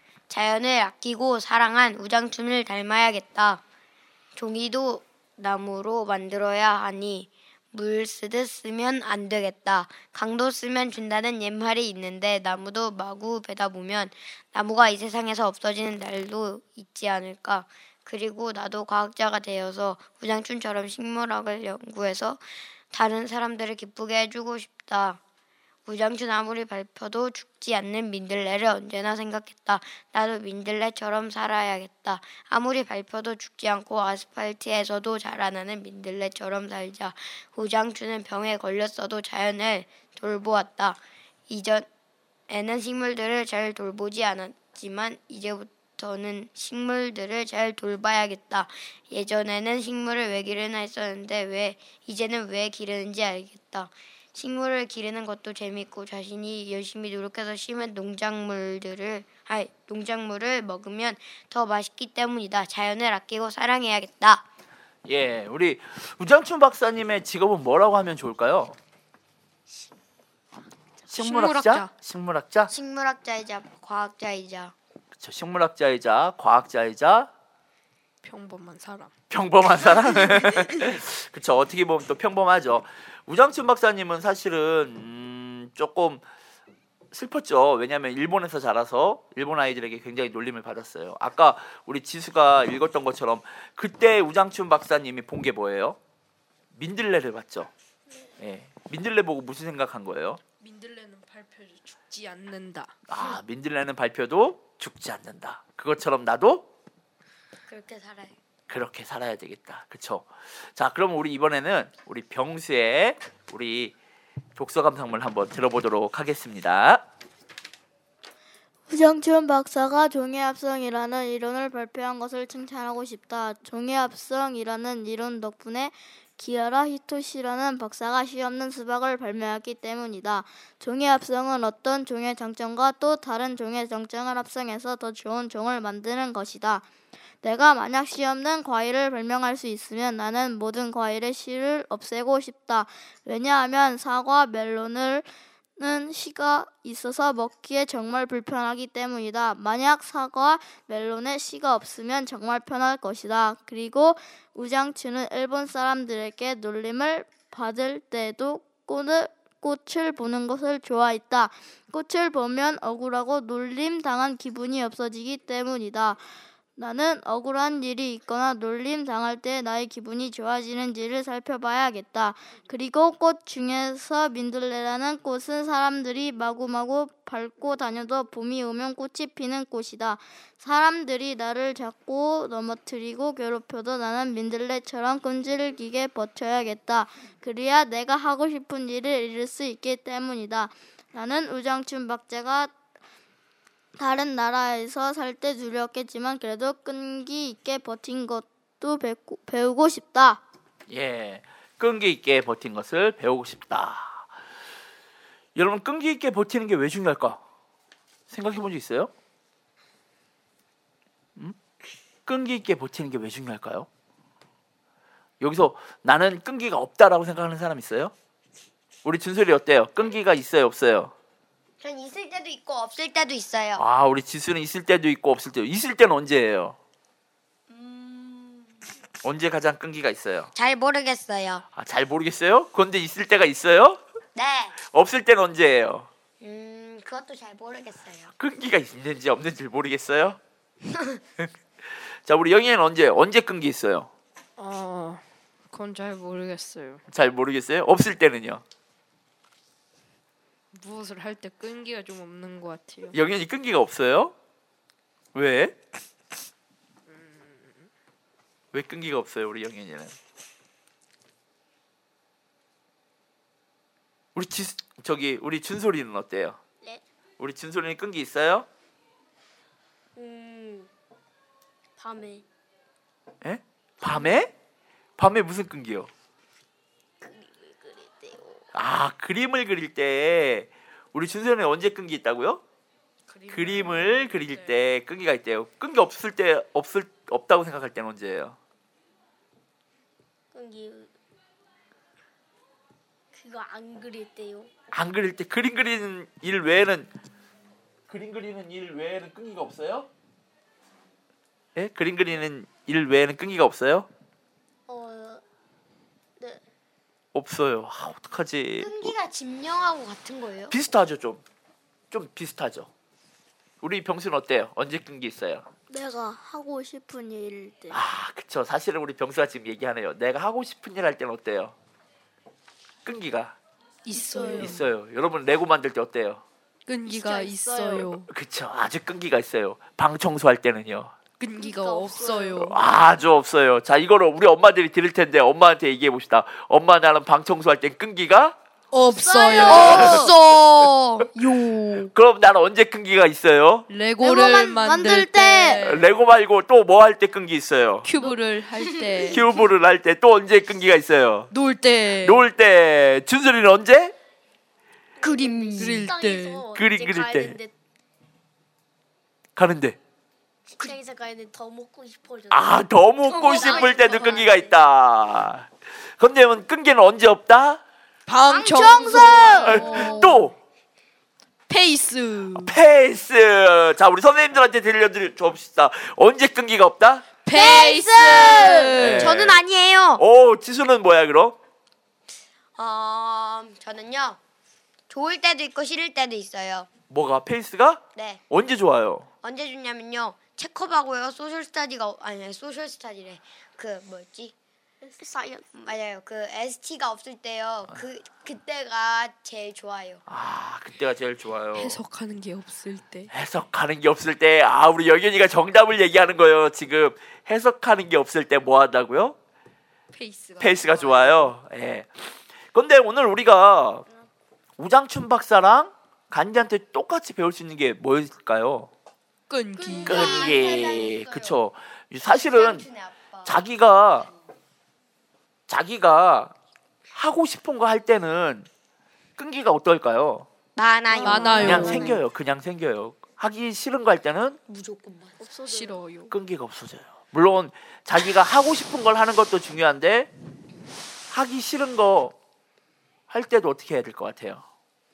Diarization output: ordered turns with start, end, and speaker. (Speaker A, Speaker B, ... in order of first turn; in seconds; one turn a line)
Speaker A: 0.3-3.6
Speaker A: 4.3-25.2
Speaker A: 25.9-41.9
Speaker A: 42.5-64.4
Speaker B: 65.0-68.8
Speaker B: 71.1-72.7
Speaker C: 71.2-71.9
Speaker A: 72.7-74.7
Speaker B: 75.2-77.3
Speaker C: 78.2-79.1
Speaker B: 79.3-86.2
Speaker B: 87.1-96.0
Speaker B: 96.7-97.7
Speaker B: 98.4-100.4
Speaker C: 100.5-103.0
Speaker B: 103.1-106.7
Speaker A: 107.7-108.3
Speaker B: 108.7-113.9
Speaker B: 114.5-117.0
Speaker D: 118.9-136.8
Speaker D: 137.4-166.2
Speaker D: 166.8-192.7
Speaker D: 194.0-200.4
Speaker B: 200.9-204.3
Speaker B: 205.5-207.4
Speaker B: 208.3-209.1
Speaker B: 212.2-213.9
Speaker B: 215.4-218.1
Speaker B: 219.0-221.1
Speaker A: 221.8-223.8
Speaker B: 223.8-226.8
Speaker A: 227.7-228.8
Speaker B: 229.2-230.5
Speaker A: 230.5-231.6
Speaker B: 231.7-234.0
Speaker A: 234.3-234.8
Speaker B: 234.8-236.1
Speaker A: 236.4-238.3
Speaker B: 238.4-240.4
Speaker A: 240.9-241.2
Speaker B: 242.2-244.1
Speaker C: 244.6-247.0
Speaker B: 247.1-248.6
Speaker C: 250.7-253.2
Speaker B: 253.1-254.3
Speaker B: 255.3-255.8
Speaker C: 257.1-257.9
Speaker B: 258.7-260.1
Speaker B: 264.3-266.6
Speaker B: 267.4-268.7
Speaker E: 270.1-270.9
Speaker E: 272.0-272.4
Speaker B: 273.4-274.5
Speaker E: 274.1-274.4
Speaker B: 275.2-276.1
Speaker E: 277.2-278.6
Speaker B: 278.7-282.6
Speaker C: 283.3-284.8
Speaker B: 283.5-288.6
Speaker E: 290.5-291.1
Speaker E: 293.3-294.7
Speaker B: 294.9-297.1
Speaker B: 298.1-300.1
Speaker B: 301.7-304.1
Speaker E: 304.9-305.4
Speaker B: 307.3-309.1
Speaker A: 308.8-310.7
Speaker B: 310.7-311.4
Speaker B: 312.1-312.9
Speaker B: 313.8-315.6
Speaker D: 315.9-318.0
Speaker B: 317.9-321.7
Speaker B: 323.0-323.6
Speaker C: 324.1-324.9
Speaker D: 324.1-324.6
Speaker B: 324.5-326.4
Speaker C: 326.9-328.3
Speaker D: 327.1-328.0
Speaker E: 327.5-327.8
Speaker B: 328.3-331.1
Speaker C: 331.4-332.8
Speaker E: 331.6-332.6
Speaker D: 331.9-332.3
Speaker B: 332.5-338.6
Speaker C: 338.9-340.3
Speaker D: 339.1-340.3
Speaker A: 339.6-342.1
Speaker B: 339.7-340.3
Speaker B: 342.1-343.9
Speaker C: 343.9-346.1
Speaker D: 344.2-345.9
Speaker B: 345.8-348.1
Speaker C: 348.0-349.6
Speaker A: 348.8-349.4
Speaker B: 349.2-351.5
Speaker C: 351.5-352.4
Speaker B: 352.2-354.1
Speaker E: 355.2-357.7
Speaker A: 355.2-356.1
Speaker C: 355.8-356.6
Speaker B: 356.7-357.6
Speaker B: 359.6-360.0
Speaker E: 360.7-364.7
Speaker B: 362.5-367.8
Speaker A: 363.3-364.5
Speaker C: 368.3-370.4
Speaker A: 368.5-370.3
Speaker E: 369.4-370.0
Speaker B: 369.5-370.5
Speaker C: 371.7-372.8
Speaker B: 372.5-377.3
Speaker C: 377.4-379.4
Speaker A: 377.5-380.2
Speaker B: 378.9-379.6
Speaker B: 380.2-381.6
Speaker A: 382.8-384.4
Speaker A: 385.1-386.9
Speaker B: 387.1-389.3
Speaker A: 388.1-388.4
Speaker A: 389.4-394.5
Speaker E: 395.2-395.7
Speaker A: 395.7-400.2
Speaker B: 400.3-402.0
Speaker C: 401.7-403.3
Speaker B: 403.3-409.4
Speaker C: 410.1-411.5
Speaker B: 410.6-412.1
Speaker B: 412.7-414.1
Speaker B: 414.8-418.9
Speaker C: 419.5-420.8
Speaker A: 419.8-421.6
Speaker B: 420.0-422.9
Speaker A: 422.2-423.6
Speaker B: 423.4-424.3
Speaker B: 425.7-426.5
Speaker B: 427.1-428.7
Speaker B: 429.4-430.5
Speaker A: 430.8-432.2
Speaker C: 431.1-432.2
Speaker D: 431.2-431.5
Speaker E: 431.2-431.6
Speaker B: 431.6-434.6
Speaker A: 434.7-435.4
Speaker E: 435.5-436.0
Speaker C: 435.6-436.3
Speaker B: 436.3-440.3
Speaker B: 441.3-442.3
Speaker B: 443.3-444.6